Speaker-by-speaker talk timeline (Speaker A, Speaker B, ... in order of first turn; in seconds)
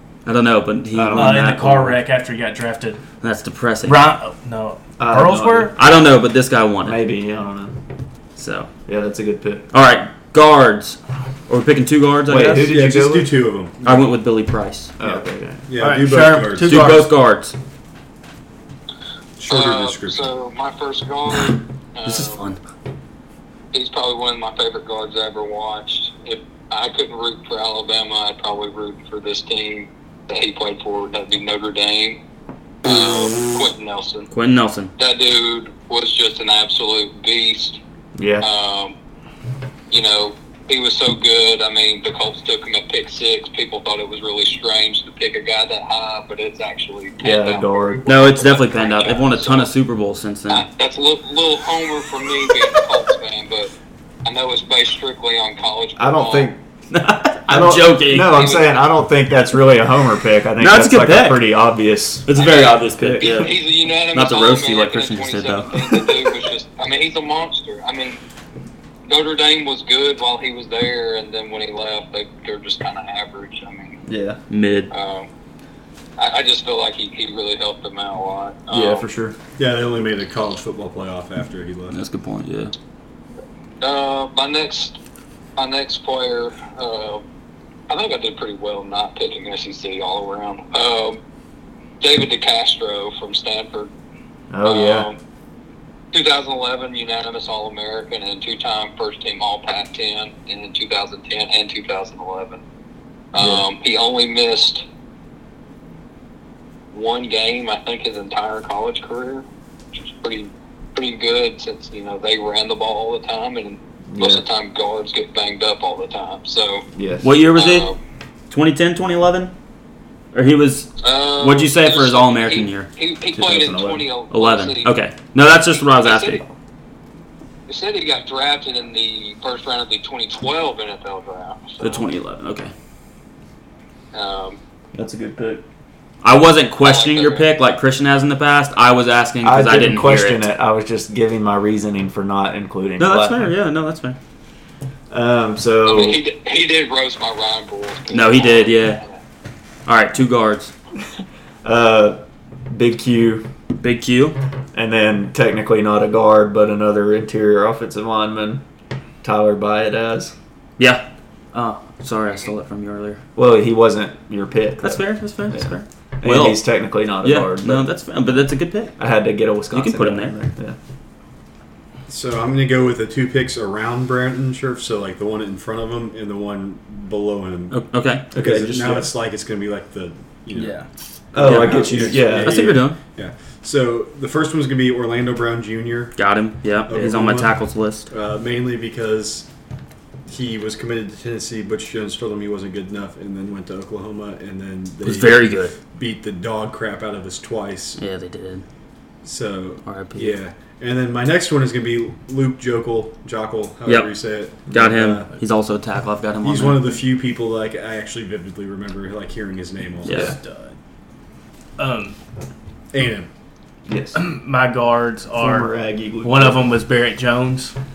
Speaker A: 0.3-2.0, 3.2-4.1, 5.7-7.0, 8.4-8.7, 9.7-12.7, 13.8-15.0, 16.6-17.6, 21.4-22.6, 34.3-34.9, 48.1-50.7, 56.9-58.5, 60.6-61.4, 62.3-63.6, 64.1-66.1, 74.5-74.9, 81.9-82.7, 117.2-117.9, 118.5-119.5, 120.3-122.9, 124.3-126.4, 131.8-132.7, 136.2-140.5, 143.0-144.2, 148.1-149.0, 149.9-150.7, 153.8-154.4, 160.8-163.2, 164.8-166.7, 167.2-169.0, 169.7-170.4, 177.7-178.3, 181.4-183.0, 186.2-188.1, 195.0-195.8, 198.0-198.7, 199.8-200.4, 203.9-204.1, 204.7-207.0, 210.1-210.3
Speaker B: 0.9-1.9, 5.0-5.8, 6.8-7.8, 8.9-9.7, 12.3-13.3, 15.0-15.7, 38.2-38.5, 47.2-48.1, 56.0-56.6, 57.5-63.5, 74.1-74.4, 78.7-79.4, 94.5-95.1, 103.4-103.7, 114.1-114.4, 117.0-117.3, 123.3-124.0, 134.9-135.6, 139.4-143.5, 145.1-146.2, 151.6-153.5, 154.7-158.6, 159.2-160.3, 163.4-167.9, 169.0-170.8, 178.3-179.1, 181.3-182.8, 213.9-214.2, 215.4-216.8
Speaker C: 1.1-3.0, 3.8-5.8, 15.8-17.1, 180.5-180.9, 210.1-210.8, 211.8-212.2, 214.2-217.8
Speaker D: 12.5-14.1, 15.7-17.0, 19.4-20.3, 79.6-82.0, 172.1-180.8, 181.3-186.2, 186.9-189.5, 190.3-198.0, 199.2-205.3, 206.4-210.3, 212.9-213.3
Speaker E: 19.5-22.4, 23.7-32.2, 32.8-34.3, 35.0-37.8, 38.4-39.0, 39.9-49.7, 50.5-53.7, 54.2-56.5, 58.2-58.8, 62.4-68.2, 69.1-74.0, 74.9-75.3, 76.2-79.1, 83.8-85.0, 85.6-87.2, 87.9-91.2, 92.0-93.9, 94.6-95.2, 96.1-102.6, 103.3-104.8, 106.9-109.5, 110.0-116.9, 117.5-118.0, 121.0-125.0, 125.7-126.5, 127.7-132.1, 134.1-134.6, 136.8-137.5, 145.8-149.2